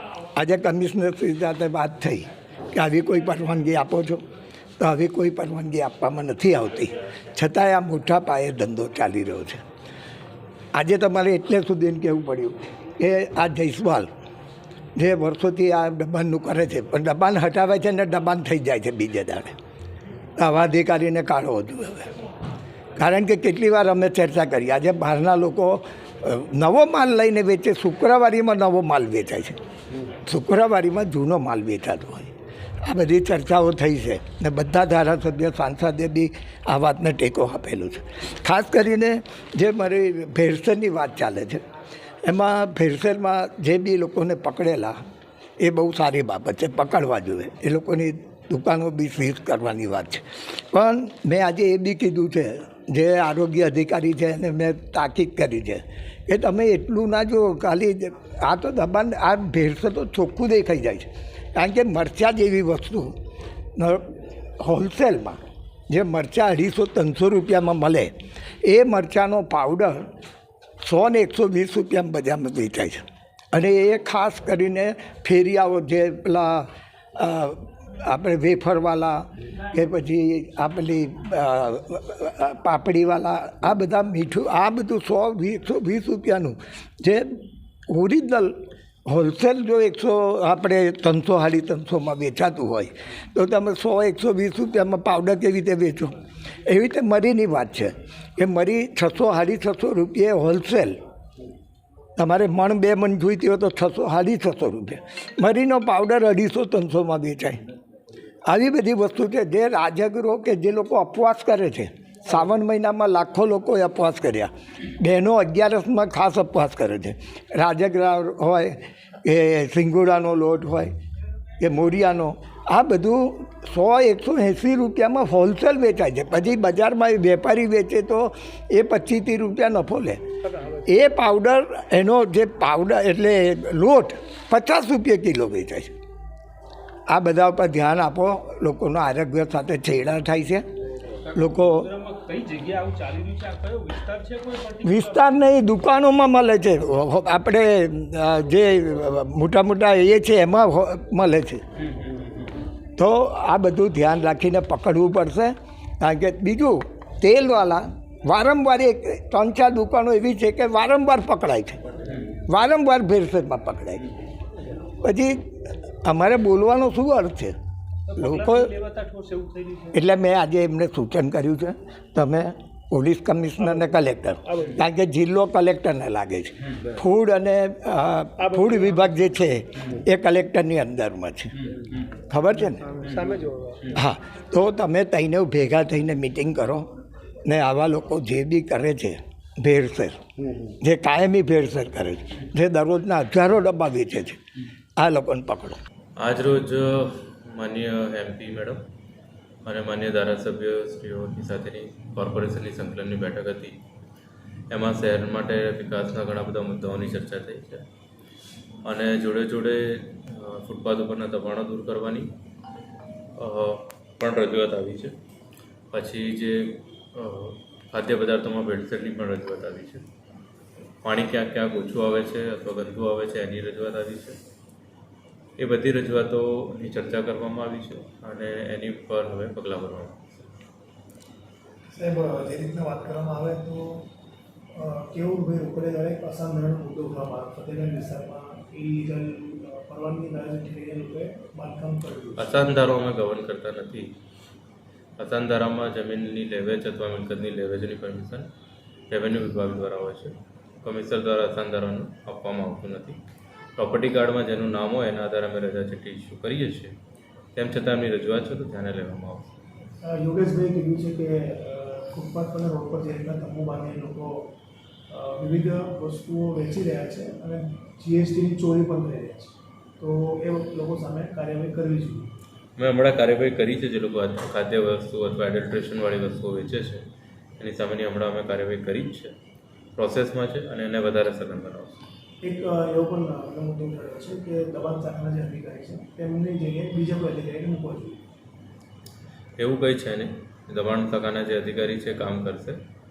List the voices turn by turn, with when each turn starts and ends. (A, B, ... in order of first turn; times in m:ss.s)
0:00.3-0:04.2 A
0:04.8-0:09.6 A
0:10.7-0:14.1 A
0:15.0-0:19.5 A
0:20.4-0:22.1 A
0:23.0-0:29.6 A
0:30.2-0:32.3 A
0:32.8-0:41.6 A
0:42.2-0:45.0 A
0:45.6-1:03.1 A
1:03.8-1:10.0 A
1:10.8-1:27.3 A
1:27.9-1:41.0 A
1:42.2-1:47.6 A
1:48.4-2:00.9 A
2:01.6-2:15.9 A
2:17.1-2:20.6 A
2:21.3-2:21.9 A
2:21.6-2:25.2 B
2:24.8-2:31.6 A
2:33.0-2:41.8 A
2:42.4-2:44.0 A
2:45.0-2:45.5 A
2:46.0-2:47.5 A
2:48.1-2:49.9 B
2:48.2-2:48.7 A
2:49.9-3:01.5 A
3:02.3-3:02.9 A
3:03.0-3:03.8 C
3:03.9-3:06.9 A
3:07.4-3:10.2 A
3:10.8-3:14.4 A
3:15.0-3:15.8 A
3:16.2-3:18.8 D
3:19.6-3:23.8 D
3:24.7-3:27.8 D
3:28.8-3:32.3 D
3:33.4-3:35.2 D
3:35.9-3:40.0 D
3:41.0-3:44.4 D
3:45.6-3:50.5 D
3:51.9-3:54.1 C
3:54.7-4:02.7 C
4:02.4-4:04.2 D
4:05.2-4:08.5 D
4:09.1-4:13.2 D
4:13.8-4:16.9 D
4:17.5-4:19.5 D
4:20.0-4:24.5 C
4:25.1-4:32.3 C
4:32.8-4:37.0 D
4:37.6-4:39.3 D
4:40.0-4:42.0 D
4:42.4-4:48.2 C
4:49.6-4:52.8 D